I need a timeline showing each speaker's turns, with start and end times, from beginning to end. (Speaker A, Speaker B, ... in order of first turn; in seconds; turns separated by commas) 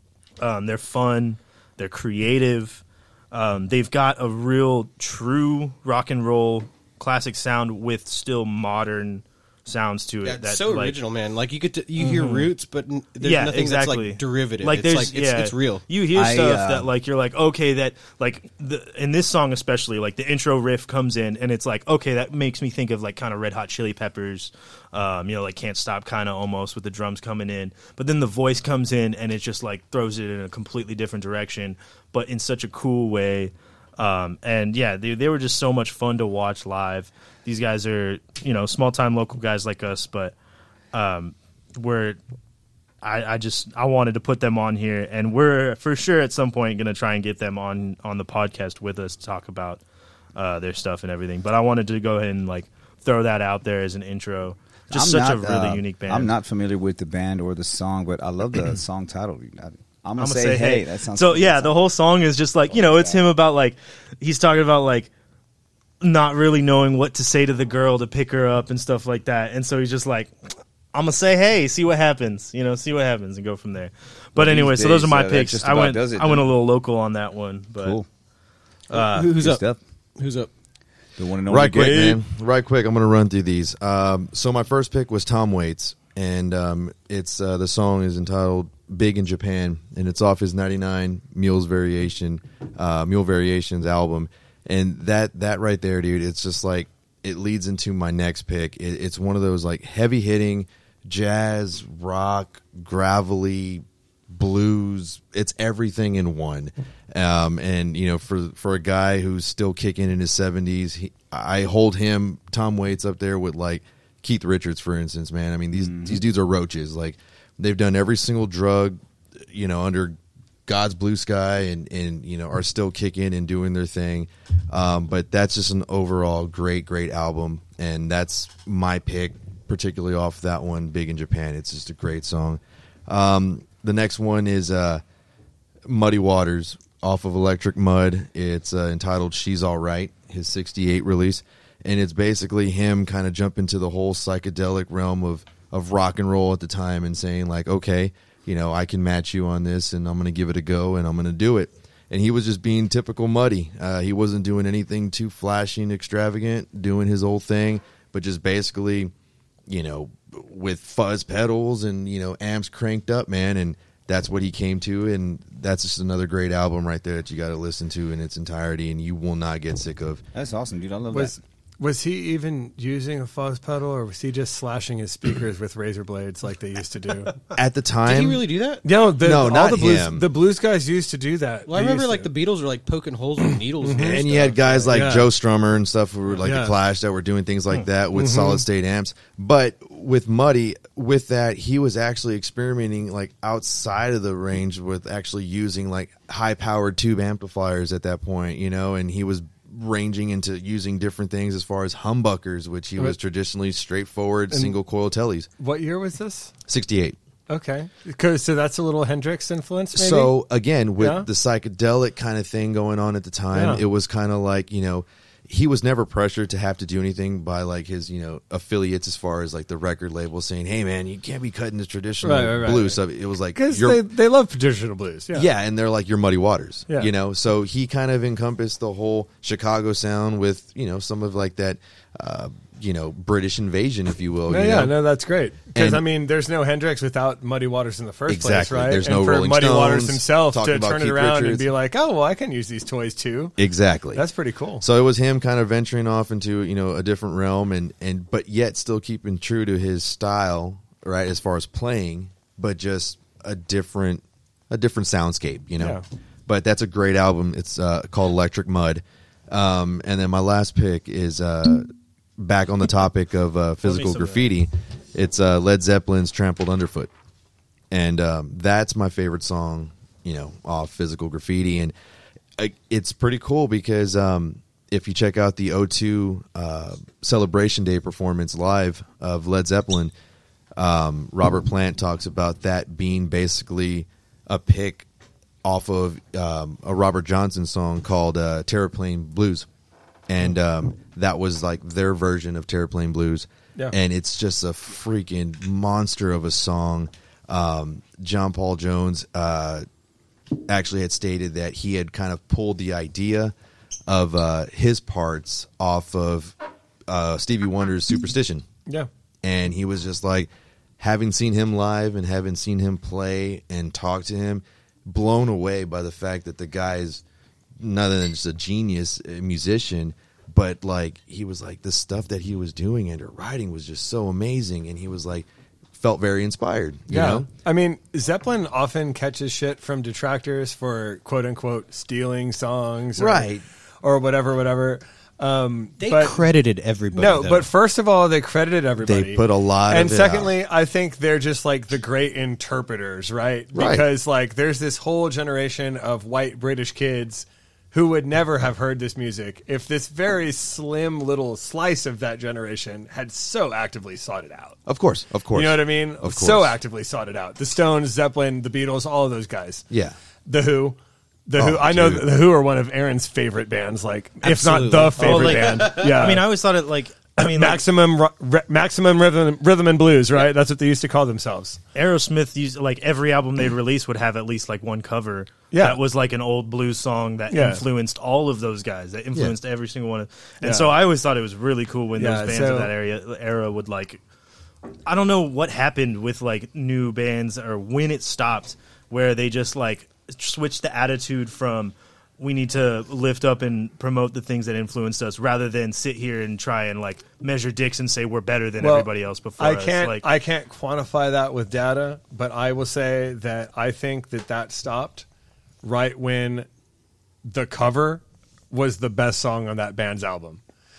Speaker A: 0.4-11.0, Speaker B: 10.2-15.8, Speaker A: 12.0-12.5, Speaker A: 13.2-40.3, Speaker C: 16.1-16.9, Speaker A: 40.9-42.2, Speaker A: 43.0-49.8, Speaker A: 50.4-56.3, Speaker C: 54.9-61.8, Speaker A: 60.2-65.1, Speaker C: 62.7-63.2, Speaker A: 66.0-70.3, Speaker A: 70.9-78.0, Speaker C: 74.3-76.4, Speaker C: 77.8-78.0, Speaker A: 78.9-79.3, Speaker B: 78.9-79.6, Speaker C: 79.2-79.8, Speaker B: 80.2-80.5, Speaker C: 81.2-82.2, Speaker D: 81.5-135.0, Speaker C: 115.8-116.2, Speaker D: 135.8-159.1, Speaker D: 159.7-170.2, Speaker C: 170.3-171.4, Speaker E: 171.1-177.3, Speaker D: 177.5-178.4, Speaker B: 178.1-178.8, Speaker E: 178.8-182.3, Speaker D: 179.2-180.3, Speaker B: 181.7-185.0, Speaker E: 183.8-184.2, Speaker D: 184.0-205.5, Speaker E: 184.9-185.3, Speaker E: 186.4-186.8, Speaker E: 188.1-188.6, Speaker E: 205.6-206.5, Speaker D: 206.7-207.2, Speaker E: 207.5-210.3, Speaker D: 209.9-224.0, Speaker E: 211.0-211.3, Speaker E: 213.5-213.8, Speaker E: 222.2-223.0, Speaker E: 223.5-225.5, Speaker D: 225.3-234.9, Speaker E: 234.5-243.5, Speaker D: 235.7-236.0, Speaker D: 238.3-241.7, Speaker D: 243.6-244.2, Speaker E: 244.1-244.8, Speaker D: 244.8-267.1, Speaker A: 263.8-264.5, Speaker D: 267.9-271.9, Speaker D: 272.6-280.1, Speaker D: 280.8-285.1, Speaker D: 285.6-289.7, Speaker D: 290.3-299.8, Speaker D: 300.7-303.5, Speaker D: 304.1-306.6, Speaker D: 307.1-308.7, Speaker D: 309.4-317.2, Speaker D: 317.8-327.5, Speaker E: 327.1-333.5, Speaker D: 333.1-333.6, Speaker E: 334.0-336.4, Speaker B: 336.0-337.7, Speaker E: 337.1-354.8, Speaker D: 339.0-340.5, Speaker D: 343.7-344.0, Speaker D: 354.9-356.8, Speaker E: 355.5-359.8, Speaker D: 359.9-360.1, Speaker E: 360.4-366.5, Speaker D: 361.6-362.3, Speaker B: 364.4-366.2, Speaker A: 365.1-367.8, Speaker E: 367.4-371.8, Speaker A: 371.9-384.2, Speaker E: 375.7-376.0, Speaker E: 377.5-377.8, Speaker E: 380.6-380.9, Speaker E: 382.2-382.9, Speaker A: 385.1-400.2, Speaker E: 398.8-405.2, Speaker E: 405.8-406.7, Speaker E: 407.4-410.6